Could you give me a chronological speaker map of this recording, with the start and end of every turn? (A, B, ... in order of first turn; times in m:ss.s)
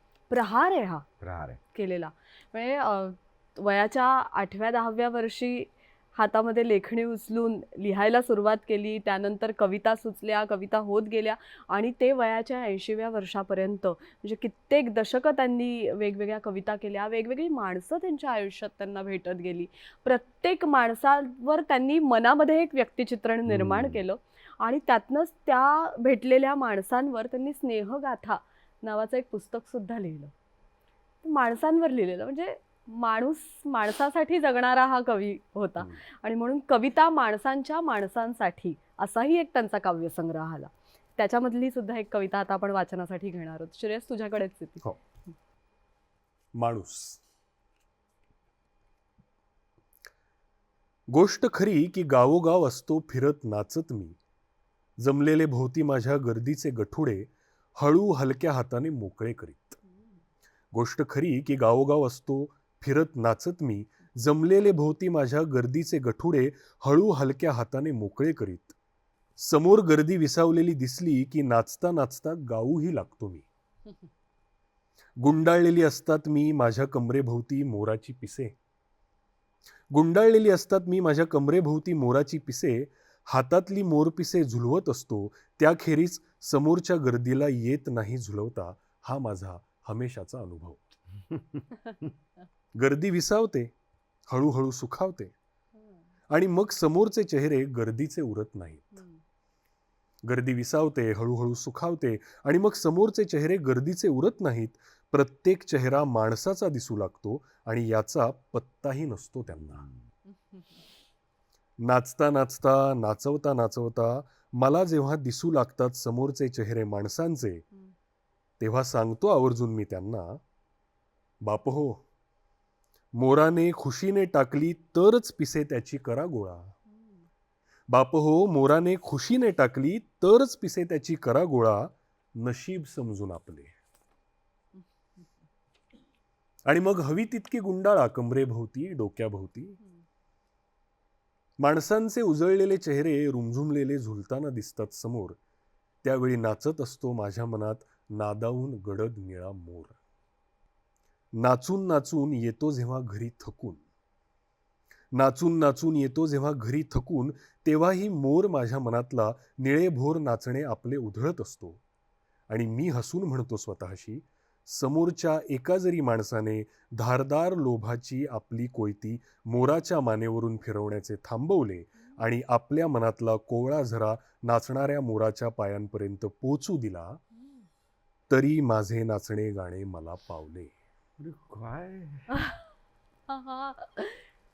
0:00.3-0:01.0 A
0:01.2-0:01.6 B
0:01.7-0:30.3 A
0:23.5-0:24.0 B
0:31.2-0:44.8 A
0:46.5-0:47.2 C
0:51.1-0:54.2 C
0:55.0-0:59.8 C
1:00.7-1:08.8 C
1:09.4-1:13.4 C
1:15.2-1:18.5 C
1:19.9-1:30.8 C
1:32.8-1:33.7 C
1:34.3-1:35.3 C
1:36.3-1:39.0 C
1:38.9-1:39.2 A
1:40.2-1:49.8 C
1:49.6-1:49.9 B
1:50.3-1:50.7 A
1:51.8-1:57.6 C
1:58.6-2:00.4 C
2:01.4-2:02.0 C
2:03.1-2:06.7 C
2:06.9-2:07.2 A
2:07.9-2:13.8 C
2:16.6-2:19.8 C
2:21.6-2:25.4 C
2:26.0-2:30.0 C
2:31.4-2:33.8 C
2:35.1-2:41.8 C
2:42.5-2:57.2 C
2:58.3-3:00.7 C
3:01.2-3:02.3 B
3:02.3-3:02.6 A
3:03.3-3:04.2 A